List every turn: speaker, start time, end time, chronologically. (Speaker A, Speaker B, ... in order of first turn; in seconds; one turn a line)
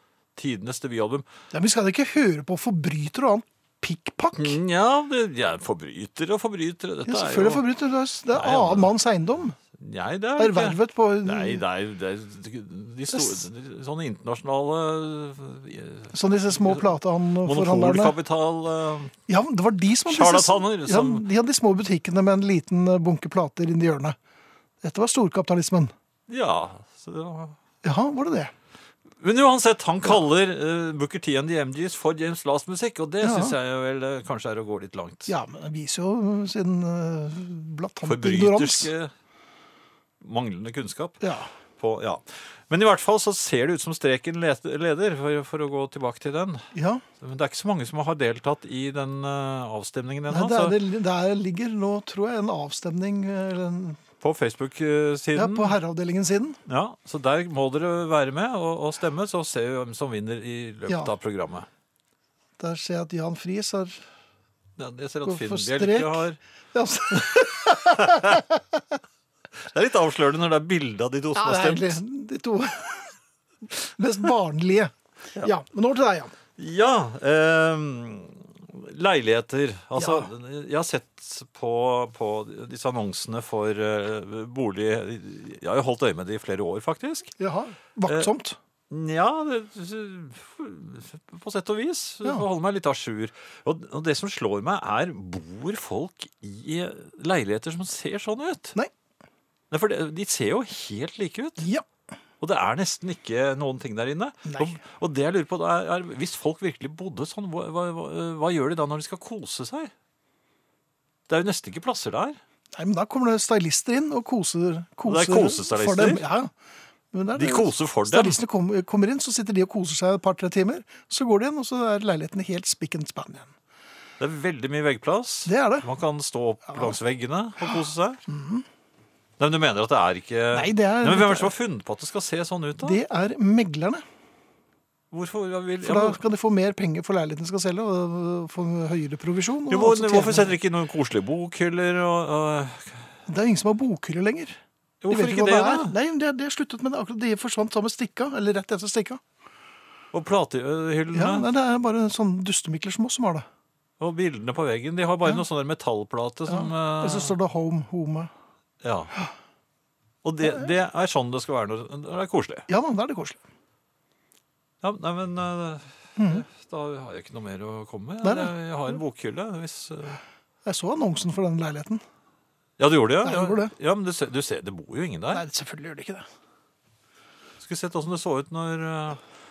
Speaker A: 0.4-1.3
Speaker B: 1.5-4.6
Speaker A: 4.4-7.6
Speaker B: 7.1-9.6
Speaker A: 8.3-8.9
Speaker A: 9.7-19.1
Speaker B: 10.4-11.6
Speaker B: 13.1-13.4
Speaker B: 16.1-18.1
Speaker B: 19.3-24.2
Speaker A: 20.1-21.3
Speaker B: 24.8-25.9
Speaker A: 26.3-27.6
Speaker B: 27.8-28.5
Speaker A: 29.2-35.3
Speaker B: 33.2-33.6
Speaker B: 35.3-38.9
Speaker A: 38.0-39.1
Speaker A: 40.2-41.2
Speaker B: 41.2-41.5
Speaker A: 41.8-46.7
Speaker B: 46.7-47.0
Speaker A: 47.2-50.8
Speaker B: 50.3-54.0
Speaker A: 54.2-55.8
Speaker B: 55.4-56.6
Speaker A: 56.7-61.7
Speaker B: 62.6-64.0
Speaker A: 64.8-66.4
Speaker B: 65.2-68.5
Speaker A: 67.1-68.4
Speaker A: 69.6-72.0
Speaker B: 71.3-73.1
Speaker B: 73.7-76.3
Speaker A: 76.6-87.3
Speaker B: 80.0-80.3
Speaker B: 87.4-88.6
Speaker A: 88.9-98.8
Speaker A: 99.7-101.7
Speaker B: 101.6-101.9
Speaker A: 102.4-109.9
Speaker B: 104.5-104.8
Speaker A: 111.3-112.4
Speaker B: 112.7-116.5
Speaker A: 115.1-116.2
Speaker B: 117.1-123.5
Speaker A: 117.3-118.4
Speaker A: 124.2-128.2
Speaker B: 125.5-125.9
Speaker B: 126.7-127.0
Speaker B: 128.3-128.7
Speaker A: 129.4-133.0
Speaker B: 130.5-131.5
Speaker B: 132.8-134.0
Speaker A: 135.1-136.2
Speaker B: 135.8-140.5
Speaker A: 139.7-143.1
Speaker B: 143.3-144.6
Speaker A: 145.0-145.9
Speaker B: 145.1-149.2
Speaker A: 150.1-151.5
Speaker B: 151.1-153.5
Speaker A: 154.0-157.3
Speaker B: 156.5-158.3
Speaker A: 158.8-159.1
Speaker A: 160.2-162.7
Speaker B: 162.7-163.4
Speaker A: 164.8-170.2
Speaker B: 166.2-166.4
Speaker B: 168.2-168.5
Speaker B: 170.7-172.0
Speaker A: 172.8-175.4
Speaker B: 173.2-173.7
Speaker B: 175.3-176.3
Speaker A: 177.6-179.2